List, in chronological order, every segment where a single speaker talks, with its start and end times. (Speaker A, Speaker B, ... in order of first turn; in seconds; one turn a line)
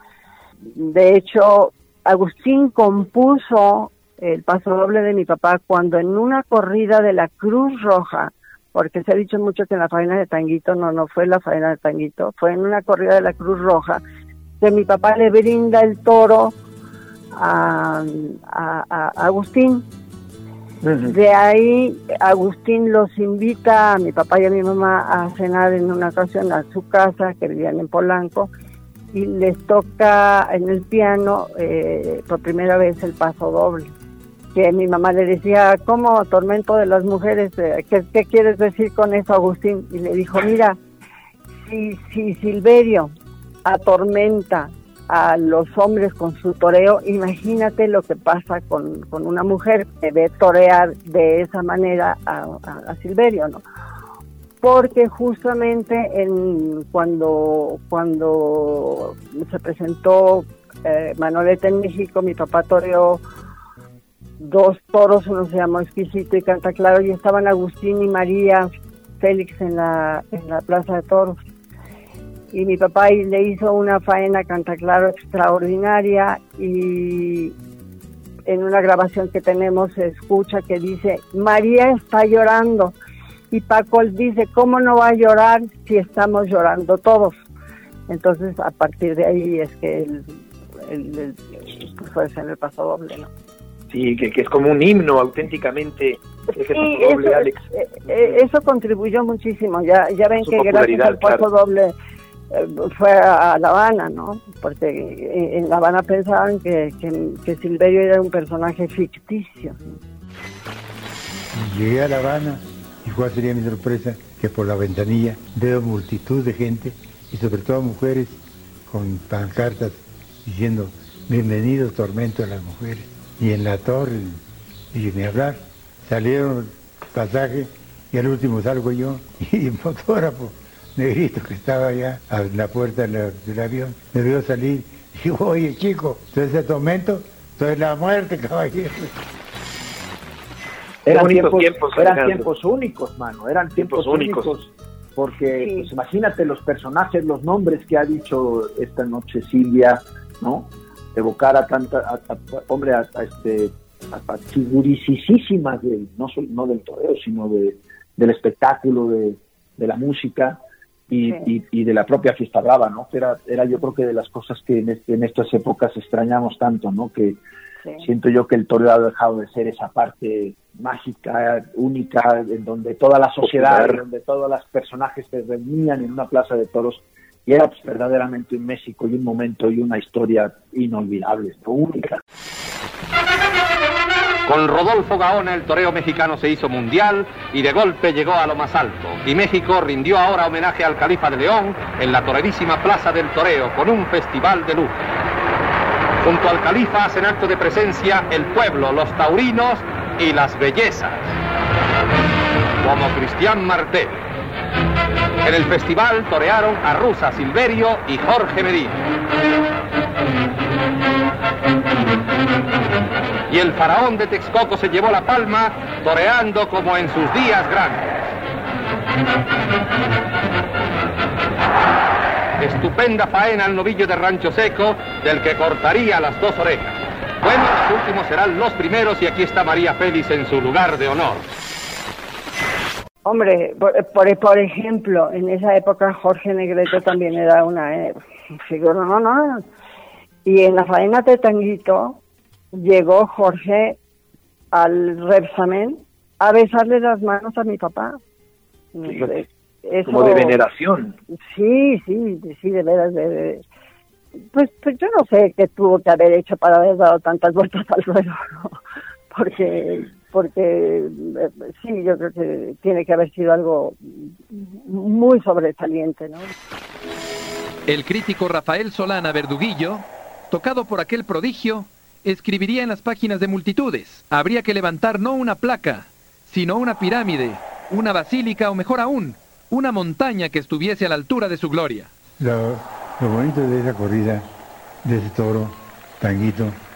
Speaker A: 0.7-14.0
Speaker A: 14.6-16.5
Speaker A: 17.3-19.9
Speaker B: 20.8-21.1
Speaker A: 21.0-28.5
Speaker A: 29.1-33.9
Speaker A: 34.5-40.8
Speaker A: 41.6-43.1
Speaker A: 43.6-53.6
Speaker A: 54.6-63.2
Speaker A: 64.4-71.4
Speaker A: 72.5-77.5
Speaker A: 78.5-82.9
Speaker A: 83.5-87.3
Speaker A: 88.1-90.3
Speaker A: 90.8-93.3
Speaker B: 93.9-97.6
Speaker A: 96.5-101.9
Speaker B: 100.4-101.5
Speaker A: 102.5-110.0
Speaker C: 111.5-124.4
Speaker C: 124.9-139.1
Speaker D: 141.1-167.4
Speaker B: 141.1-142.5
Speaker B: 143.8-144.5
Speaker A: 145.6-145.9
Speaker D: 168.0-182.2
Speaker B: 173.4-174.0
Speaker E: 184.5-195.0
Speaker E: 196.2-201.4
Speaker E: 202.8-204.2
Speaker E: 205.4-209.0
Speaker E: 213.5-218.1
Speaker E: 222.6-231.5
Speaker A: 233.2-239.6
Speaker A: 240.4-242.2
Speaker A: 242.7-244.0
Speaker A: 244.7-248.2
Speaker A: 248.9-250.6
Speaker B: 249.1-249.4
Speaker B: 250.1-251.2
Speaker A: 251.5-253.6
Speaker A: 254.5-258.8
Speaker A: 259.3-266.5
Speaker F: 267.9-282.1
Speaker C: 282.4-284.5
Speaker C: 285.0-286.8